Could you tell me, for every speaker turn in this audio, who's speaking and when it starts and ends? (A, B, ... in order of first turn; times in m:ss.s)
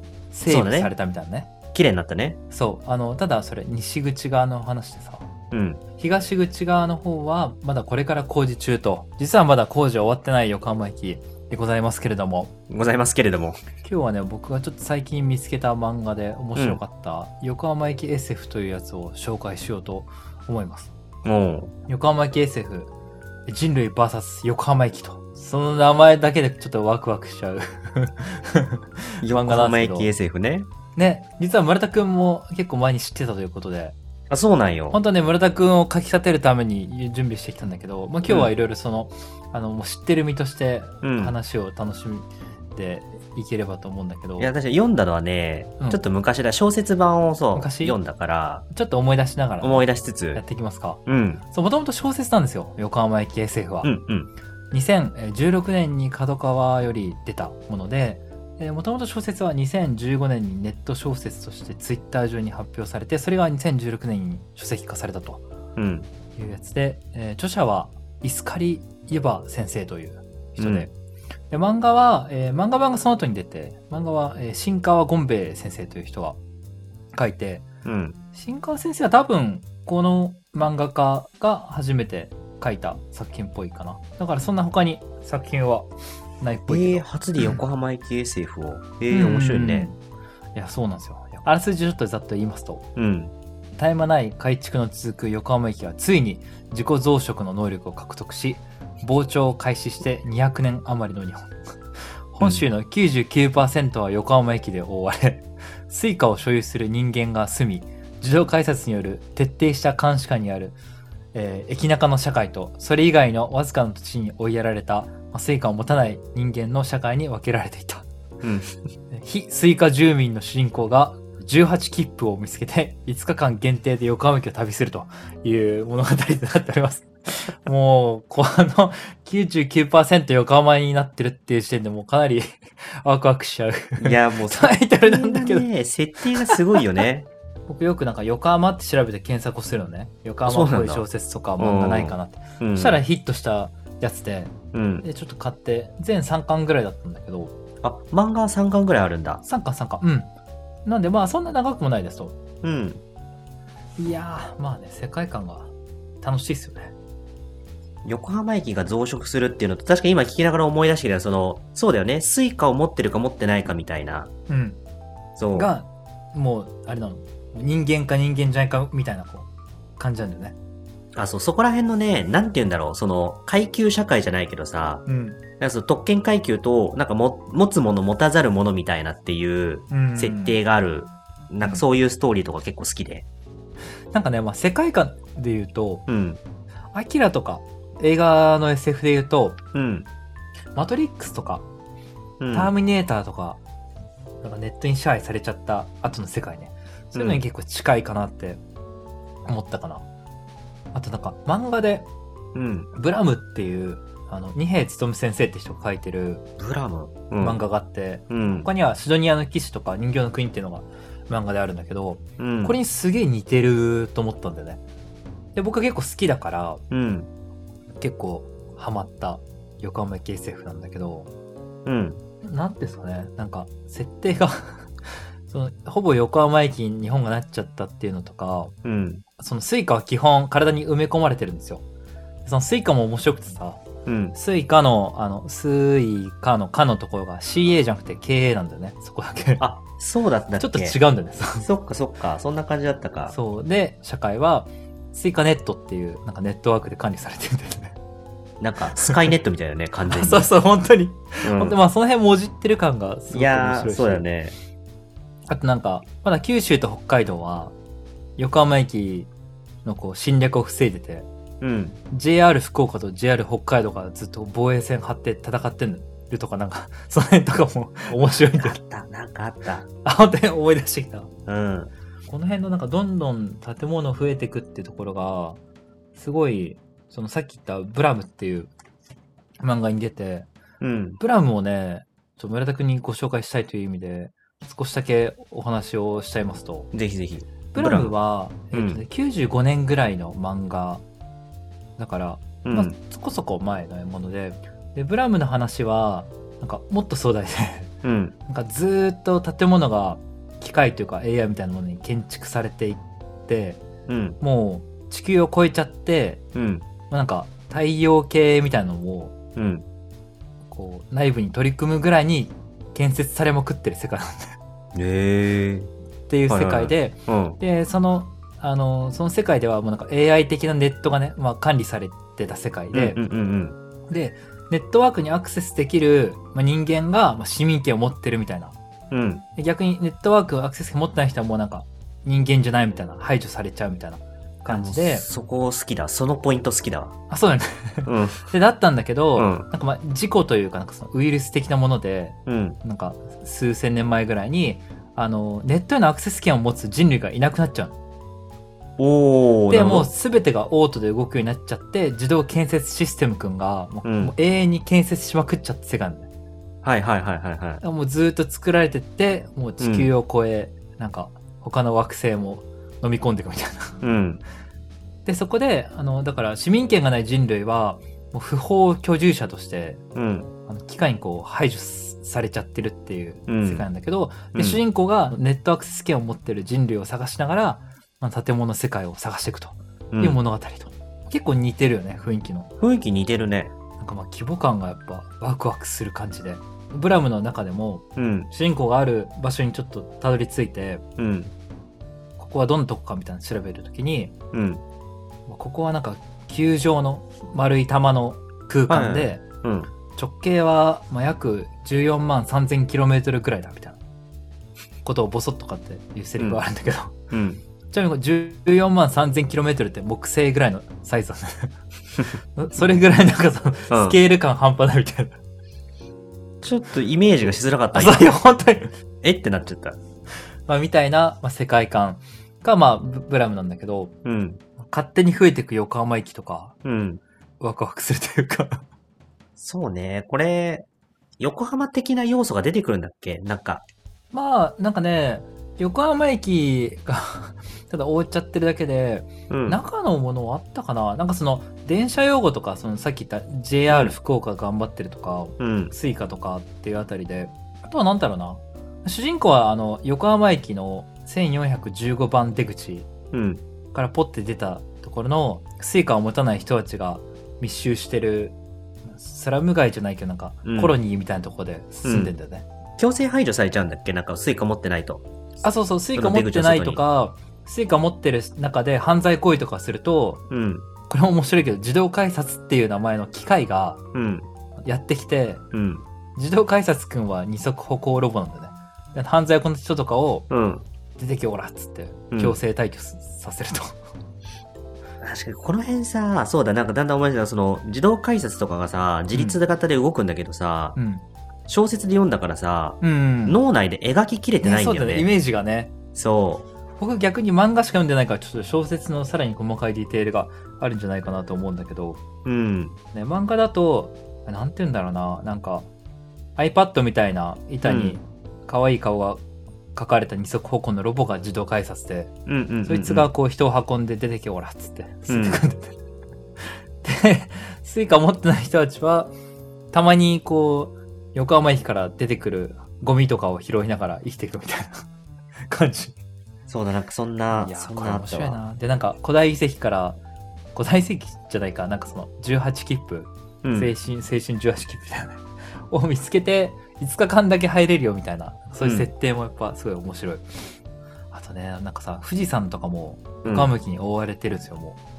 0:00.3-0:01.5 A
0:00.4-0:00.9 B
0:01.7-0:02.4 B
0:02.5-0:05.3 A
0:05.5-0:05.8 B
0:06.0-0:12.5 A
0:12.7-0:13.6 B
0:13.8-0:20.9 A
0:16.5-0:16.8 B
0:21.2-0:21.7 B
0:21.9-0:22.9 A
0:23.5-0:30.1 A
0:29.2-0:30.7 B
0:31.0-0:34.0 A
0:34.3-0:35.0 B
0:34.9-0:44.5 A
0:41.0-0:41.3 B
0:44.4-0:48.6 B
0:47.5-0:48.0 A
0:48.7-0:53.9 A
0:49.6-0:50.4 B
0:51.0-0:51.4 B
0:53.8-0:54.3 B
0:54.7-1:05.4 A
1:05.8-1:06.1 B
1:06.3-1:10.9 A
1:10.6-1:10.9 B
1:11.5-1:16.4 A
1:17.1-1:17.6 A
1:17.8-1:18.2 B
1:18.3-1:25.9 A
1:26.4-1:27.6 A
1:26.7-1:29.9 B
1:29.1-1:30.0 A
1:30.5-1:32.8 A
1:33.0-1:33.3 B
1:33.8-1:41.5 A
1:42.3-1:50.8 A
1:42.4-1:42.6 B
1:51.3-1:58.0 A
1:58.4-1:58.8 B
1:59.1-2:15.7 A
2:14.0-2:17.3 B
2:16.4-2:16.8 A
2:17.7-2:27.5 A
2:20.4-2:21.0 B
2:21.6-2:23.0 B
2:24.7-2:25.0 B
2:27.8-2:29.4 B
2:29.4-2:30.3 A
2:30.8-2:32.4 A
2:32.6-2:33.0 B
2:34.0-2:35.7 A
2:36.2-2:36.9 A
2:38.0-2:44.3 B
2:44.5-2:44.8 A
2:45.4-2:45.7 B
2:45.5-2:49.5 A
2:50.0-2:50.6 A
2:51.2-2:55.0 B
2:55.0-2:55.4 A
2:55.6-3:03.2 B
2:59.9-3:00.6 A
3:04.1-3:06.0 A
3:06.1-3:06.4 B
3:06.9-3:09.6 A
3:09.7-3:10.1 B
3:10.7-3:11.6 A
3:12.4-3:12.7 B
3:12.5-3:13.6 A
3:14.4-3:18.6 A
3:17.1-3:17.4 B
3:19.5-3:20.0 A
3:20.9-3:22.1 A
3:22.5-3:22.9 B
3:22.9-3:26.5 A
3:26.6-3:27.6 B
3:27.4-3:34.8 A
3:28.3-3:28.7 B
3:32.4-3:32.8 B
3:35.5-3:36.8 A
3:36.9-3:37.3 B
3:38.0-3:41.3 A
3:41.8-3:42.2 B
3:42.4-3:48.7 A
3:48.8-3:49.2 B
3:49.4-3:51.8 A
3:52.4-3:53.8 A
3:54.0-3:54.4 B
3:54.3-3:59.6 A
3:59.6-4:01.0 B
4:00.6-4:01.7 A
4:01.6-4:03.3 B
4:03.3-4:08.0 A
4:08.6-4:10.5 B
4:08.9-4:09.2 A
4:10.0-4:14.2 A
4:11.4-4:11.8 B
4:13.3-4:14.6 B
4:15.5-4:17.7 A
4:18.4-4:19.3 A
4:19.8-4:21.3 A
4:21.6-4:22.0 B
4:22.1-4:28.8 A
4:28.1-4:29.9 B
4:30.0-4:31.3 A
4:31.5-4:31.9 B
4:32.3-4:35.6 A
4:36.1-4:38.7 A
4:39.6-4:40.5 A
4:40.8-4:41.2 B
4:41.2-4:46.9 A
4:46.9-4:48.1 B
4:47.7-4:51.0 A
4:48.7-4:49.0 B
4:52.0-4:57.9 A
4:52.6-4:52.9 B
4:58.0-4:58.3 B
4:58.5-5:03.8 A
5:04.1-5:04.4 B
5:04.4-5:06.4 A
5:06.5-5:06.8 B
5:07.1-5:09.3 A
5:09.6-5:09.8 B
5:10.7-5:14.6 A
5:14.9-5:15.9 B
5:16.3-5:23.2 A
5:16.5-5:17.6 B
5:22.9-5:23.8 B
5:24.1-5:28.7 A
5:29.1-5:29.4 B
5:29.6-5:35.2 A
5:34.7-5:37.2 B
5:37.3-5:48.0 A
5:38.0-5:38.5 B
5:39.3-5:39.7 B
5:42.5-5:42.8 B
5:49.0-5:50.1 B
5:49.7-5:56.3 A
5:54.0-5:54.3 B
5:56.8-5:57.8 B
5:57.8-6:04.0 A
5:59.8-6:00.1 B
6:04.0-6:04.4 B
6:05.2-6:10.0 A
6:10.1-6:10.5 B
6:10.7-6:22.7 A
6:13.5-6:13.8 B
6:14.5-6:14.8 B
6:20.1-6:20.4 B
6:22.8-6:23.7 B
6:24.0-6:31.0 A
6:28.2-6:28.5 B
6:31.2-6:31.5 B
6:32.4-6:34.3 A
6:34.5-6:34.8 B
6:35.5-6:39.4 A
6:38.9-6:39.9 B
6:40.2-6:44.0 A
6:45.0-6:47.1 A
6:47.3-6:47.6 B
6:47.9-6:51.7 A
6:52.5-6:55.4 A
6:53.9-6:54.2 B
6:56.6-6:58.3 B
6:57.9-6:58.9 A
6:59.2-7:00.0 B
7:00.7-7:04.1 A
7:04.2-7:04.6 B
7:04.8-7:06.7 A
7:06.8-7:07.2 B
7:07.6-7:08.8 A
7:09.6-7:10.8 B
7:11.4-7:13.8 B
7:14.3-7:33.1 A
7:19.5-7:19.8 B
7:23.9-7:24.2 B
7:25.6-7:25.9 B
7:33.3-7:33.6 B
7:33.9-7:42.6 A
7:40.6-7:41.0 B
7:42.0-7:42.3 B
7:43.0-7:45.2 B
7:45.6-7:50.5 A
7:46.1-7:47.0 B
7:50.5-7:50.9 B
7:51.1-7:54.0 A
7:54.1-7:54.5 B
7:54.8-7:55.6 A
7:55.7-7:56.0 B
7:56.4-8:00.5 A
8:00.5-8:00.8 B
8:01.2-8:04.0 A
8:02.3-8:02.6 B
8:05.2-8:11.0 B
8:09.3-8:09.6 A
8:11.0-8:11.2 A
8:11.7-8:15.3 B
8:13.0-8:13.6 A
8:14.6-8:15.9 A
8:16.1-8:16.6 B
8:17.0-8:22.2 A
8:22.4-8:23.0 B
8:23.1-8:25.9 A
8:26.6-8:29.4 A
8:27.8-8:28.2 B
8:29.9-8:32.3 A
8:32.5-8:33.3 B
8:32.9-8:36.0 A
8:35.3-8:35.6 B
8:36.6-8:39.3 A
8:39.9-8:45.1 A
8:45.7-8:46.2 A
8:46.7-8:48.6 B
8:47.5-8:50.2 A
8:50.7-9:00.8 A
8:53.6-8:53.9 B
8:58.8-8:59.1 B
9:01.3-9:05.0 A
9:03.4-9:03.7 B